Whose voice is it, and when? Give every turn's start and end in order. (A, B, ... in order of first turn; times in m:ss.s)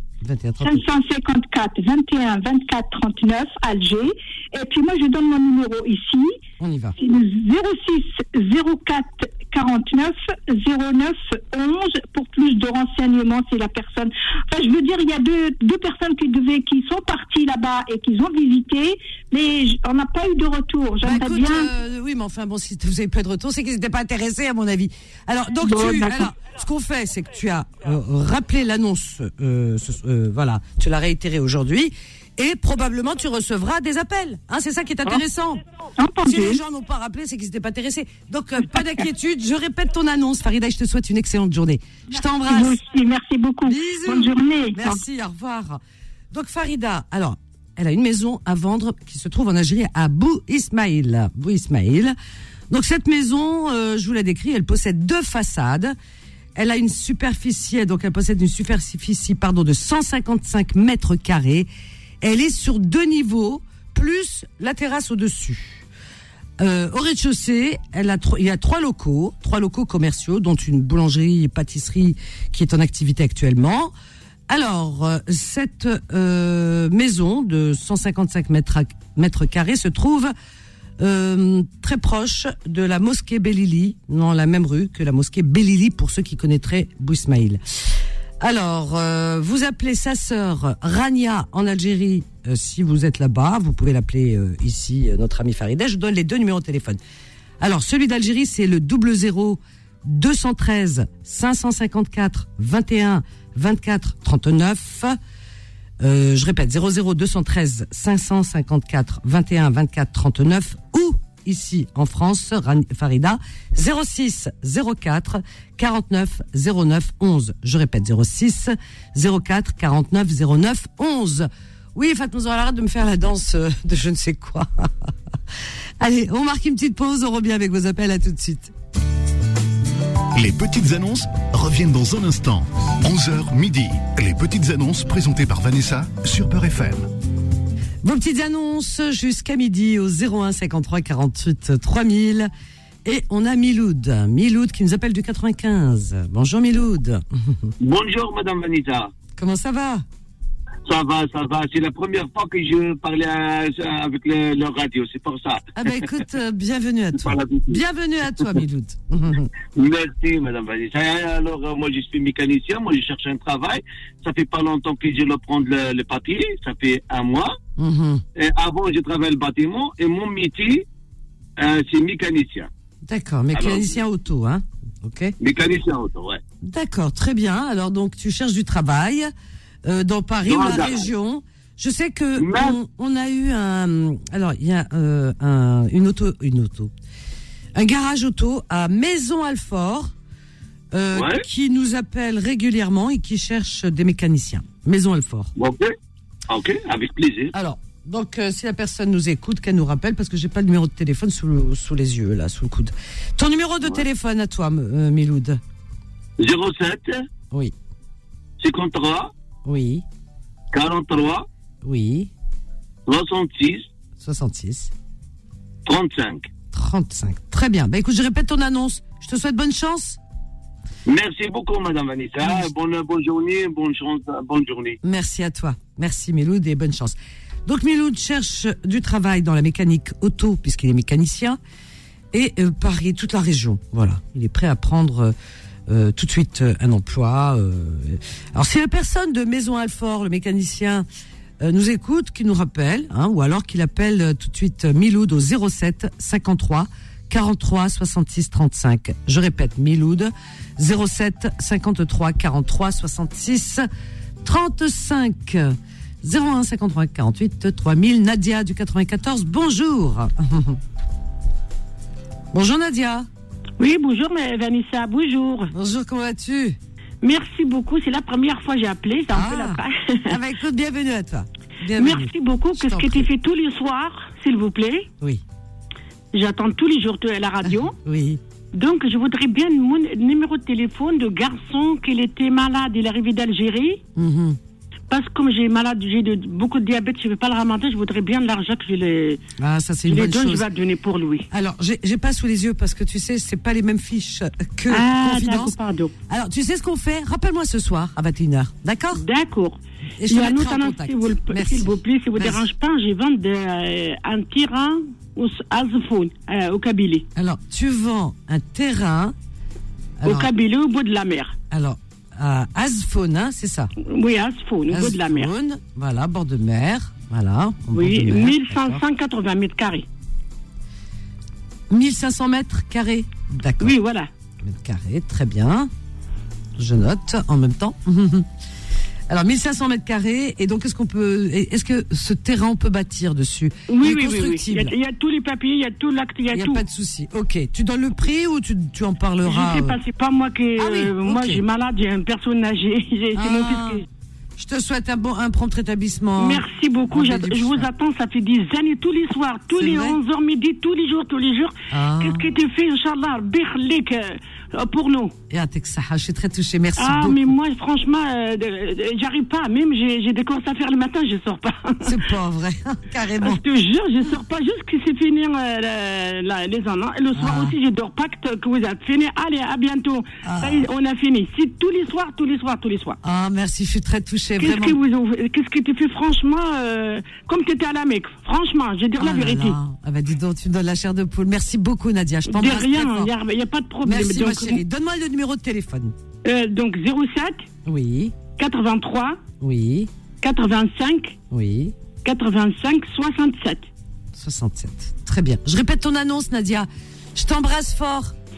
0:00.2-0:00.8 A
0:00.6-0:06.4 B
0:06.6-0:07.0 A
0:07.0-0:21.7 B
0:21.0-0:35.6 A
0:25.6-0:26.3 B
0:36.0-0:36.6 B
0:36.2-0:42.8 A
0:42.4-0:45.0 B
0:43.6-0:52.2 A
0:52.7-0:56.0 A
0:56.6-1:01.7 A
1:02.2-1:05.8 A
1:06.6-1:13.9 A
1:14.5-1:20.3 A
1:21.0-1:27.6 A
1:28.4-1:37.0 A
1:37.6-1:45.2 A
1:46.0-2:05.1 A
2:06.0-2:08.7 A
2:10.4-2:17.1 C
2:18.0-2:22.5 A
2:23.0-2:27.7 A
2:27.8-2:29.1 D
2:29.3-2:30.0 A
2:30.9-2:35.7 D
2:35.8-2:39.5 A
2:37.2-2:37.8 D
2:39.7-2:47.6 D
2:47.8-2:48.2 A
2:48.4-2:50.8 D
2:51.6-2:52.7 D
2:53.1-2:55.3 A
2:53.5-2:53.9 D
2:55.4-2:56.4 D
2:56.6-2:59.3 A
2:59.8-3:06.9 A
3:00.5-3:01.1 D
3:02.4-3:02.8 D
3:07.8-3:10.1 A
3:10.9-3:15.5 A
3:11.1-3:11.4 D
3:15.6-3:15.9 D
3:16.5-3:17.5 D
3:17.5-3:25.6 A
3:26.4-3:27.2 D
3:28.6-3:29.3 D
3:29.6-3:30.0 A
3:30.7-3:31.5 D
3:31.8-3:32.3 A
3:33.1-3:33.9 D
3:34.2-3:34.9 A
3:35.9-3:36.5 D
3:36.7-3:40.2 A
3:41.1-3:45.0 D
3:45.0-3:51.6 A
3:52.3-3:55.3 A
3:55.9-4:01.1 A
4:01.6-4:13.9 A
4:14.4-4:20.8 A
4:22.5-4:23.3 A
4:23.8-4:25.7 E
4:25.7-4:26.8 A
4:27.2-4:30.4 E
4:29.3-4:33.3 A
4:32.0-4:35.1 E
4:36.3-4:38.0 E
4:37.6-4:38.4 A
4:38.7-4:44.0 E
4:44.2-4:44.6 A
4:45.1-4:49.4 E
4:49.6-4:50.7 A
4:50.1-4:51.5 E
4:51.5-4:55.8 A
4:54.9-4:56.1 E
4:56.3-4:59.2 A
4:59.2-5:07.3 E
5:00.2-5:02.6 A
5:07.4-5:09.4 A
5:10.2-5:10.5 A
5:10.2-5:11.6 E
5:11.7-5:13.9 A
5:14.0-5:15.5 E
5:14.9-5:19.0 A
5:17.9-5:20.1 E
5:21.9-5:24.0 A
5:23.8-5:24.3 E
5:24.6-5:25.9 A
5:26.8-5:28.5 A
5:29.3-5:34.9 A
5:33.9-5:36.8 E
5:36.5-5:40.0 A
5:39.4-5:44.0 E
5:40.8-5:41.6 A
5:43.3-5:44.0 A
5:44.6-5:47.9 A
5:46.4-5:55.4 E
5:49.7-5:50.2 A
5:51.9-5:52.5 A
5:55.5-5:57.6 A
5:57.0-6:02.2 E
6:02.0-6:03.6 A
6:03.4-6:13.2 E
6:07.4-6:07.8 A
6:10.4-6:10.9 A
6:13.2-6:15.0 A
6:14.6-6:19.8 E
6:19.2-6:23.3 A
6:22.5-6:24.8 E
6:24.0-6:26.1 A
6:26.4-6:27.7 E
6:27.8-6:28.4 A
6:28.6-6:29.4 E
6:29.6-6:30.1 A
6:30.4-6:31.4 E
6:31.5-6:32.0 A
6:32.2-6:33.9 E
6:34.3-6:38.4 A